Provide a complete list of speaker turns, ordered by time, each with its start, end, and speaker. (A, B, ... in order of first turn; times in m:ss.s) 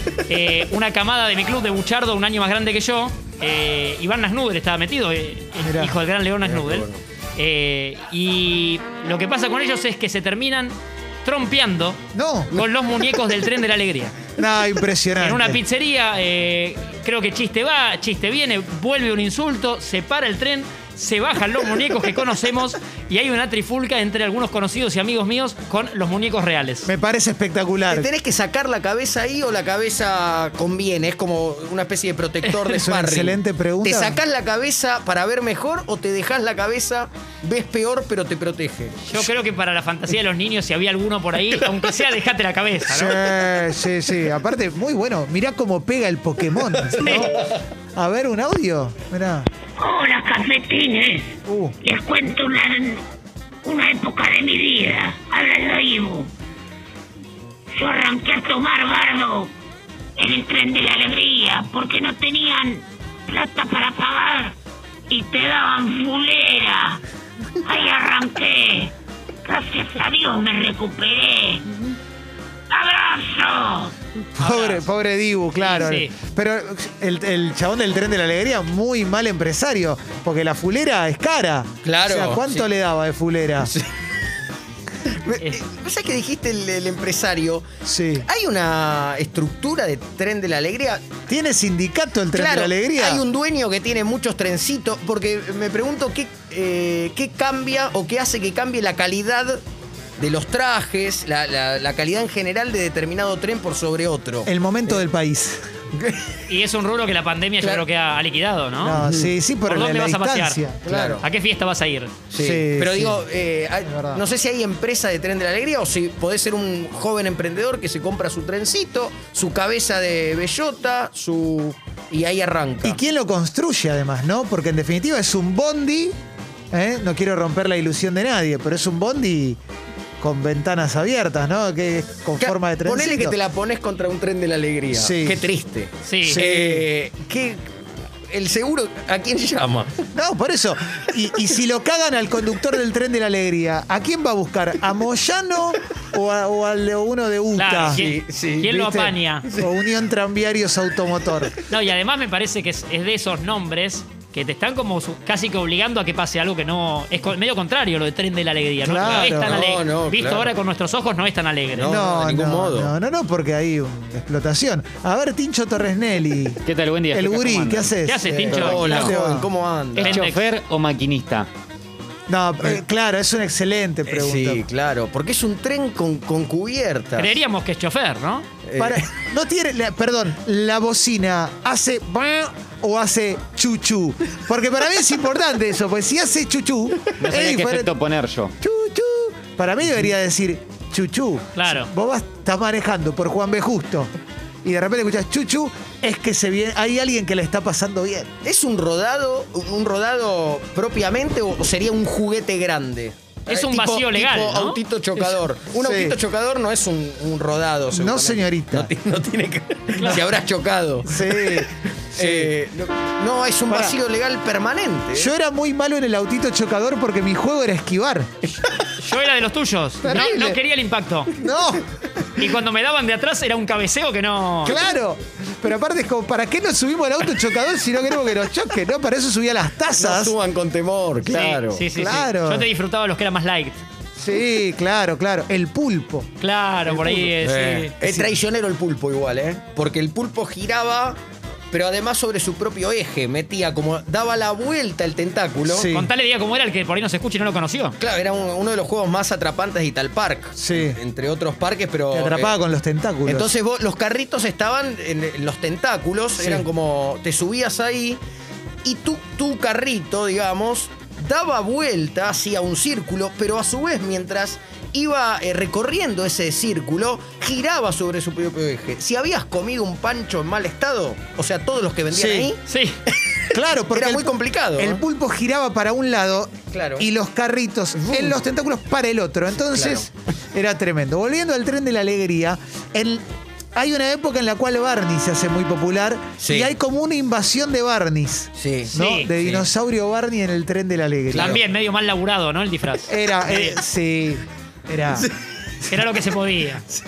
0:00.3-0:12.0 A
0:05.6-0:06.0 B
0:06.4-0:07.0 C
0:12.1-0:12.6 B
0:12.5-0:14.2 A
0:14.4-0:15.6 B
0:15.2-0:26.9 A
0:26.8-0:28.1 B
0:27.9-0:39.2 C
0:32.6-0:34.2 B
0:39.0-0:43.2 A
0:42.9-0:49.5 B
0:46.8-0:47.5 C
0:49.8-0:53.0 D
0:51.5-0:51.8 B
0:53.6-0:56.3 D
0:57.7-0:59.5 D
1:00.2-1:04.6 D
1:05.1-1:07.0 D
1:07.6-1:08.9 D
1:09.5-1:11.7 D
1:12.7-1:13.9 D
1:14.4-1:23.7 B
1:14.4-1:14.9 A
1:15.6-1:16.1 A
1:21.8-1:22.7 C
1:23.6-1:23.9 C
1:25.2-1:27.6 C
1:27.8-1:28.3 B
1:28.2-1:31.0 C
1:31.3-1:33.2 B
1:32.3-1:39.6 C
1:40.2-1:45.0 C
1:44.5-1:45.6 B
1:46.5-1:49.0 A
1:48.8-1:51.2 B
1:48.8-1:49.3 C
1:49.7-1:50.6 A
1:50.8-1:51.2 C
1:51.2-1:52.1 A
1:52.3-2:03.0 C
1:52.4-1:53.2 B
1:53.8-1:54.2 B
2:02.8-2:06.1 B
2:06.7-2:09.6 B
2:10.2-2:13.4 B
2:12.4-2:17.8 C
2:14.9-2:15.5 B
2:16.0-2:16.4 A
2:16.2-2:16.9 B
2:18.3-2:20.0 C
2:20.1-2:28.0 B
2:27.6-2:29.4 A
2:27.9-2:28.8 C
2:28.6-2:31.5 B
2:31.7-2:42.0 A
2:38.8-2:39.6 B
2:39.0-2:40.5 C
2:41.7-2:42.9 C
2:41.8-2:49.5 B
2:46.6-2:47.9 E
2:48.0-2:49.0 A
2:48.2-2:50.2 C
2:50.0-2:50.5 A
2:50.0-2:51.5 E
2:52.3-2:54.6 B
2:54.1-2:57.3 C
2:57.2-2:58.5 A
2:58.7-2:59.0 C
2:58.8-3:08.0 B
3:07.2-3:08.5 E
3:08.6-3:14.1 B
3:11.6-3:11.9 A
3:14.6-3:18.3 B
3:18.4-3:35.3 C
3:23.5-3:25.3 A
3:25.8-3:26.2 B
3:27.9-3:28.9 B
3:30.0-3:30.2 A
3:31.0-3:32.5 B
3:33.7-3:34.0 B
3:35.1-3:38.3 B
3:39.0-3:41.3 A
3:40.0-3:40.6 B
3:41.4-3:41.8 B
3:41.4-3:41.8 C
3:42.4-3:44.8 A
3:44.6-3:50.4 B
3:50.0-3:51.8 C
3:51.3-3:53.8 A
3:51.3-3:52.7 B
3:54.2-3:56.3 B
3:56.4-3:57.9 A
3:56.9-3:57.3 B
3:57.4-4:01.2 C
3:58.0-3:58.3 B
4:01.7-4:05.9 C
4:05.7-4:06.1 B
4:05.9-4:08.0 A
4:08.0-4:12.6 C
4:10.6-4:11.0 B
4:12.1-4:13.5 B
4:13.3-4:18.2 C
4:16.4-4:16.6 B
4:18.8-4:32.6 C
4:32.1-4:32.5 B
4:32.7-4:33.0 A
4:33.2-4:35.0 C
4:33.5-4:43.2 B
4:36.7-4:37.1 C
4:38.0-4:38.4 C
4:39.6-4:40.1 C
4:43.8-4:51.6 B
4:46.4-4:46.7 C
4:48.6-4:48.9 C
4:48.9-4:49.7 A
4:51.3-4:51.6 C
4:51.3-4:53.8 A
4:53.1-4:55.3 B
4:55.8-4:56.8 A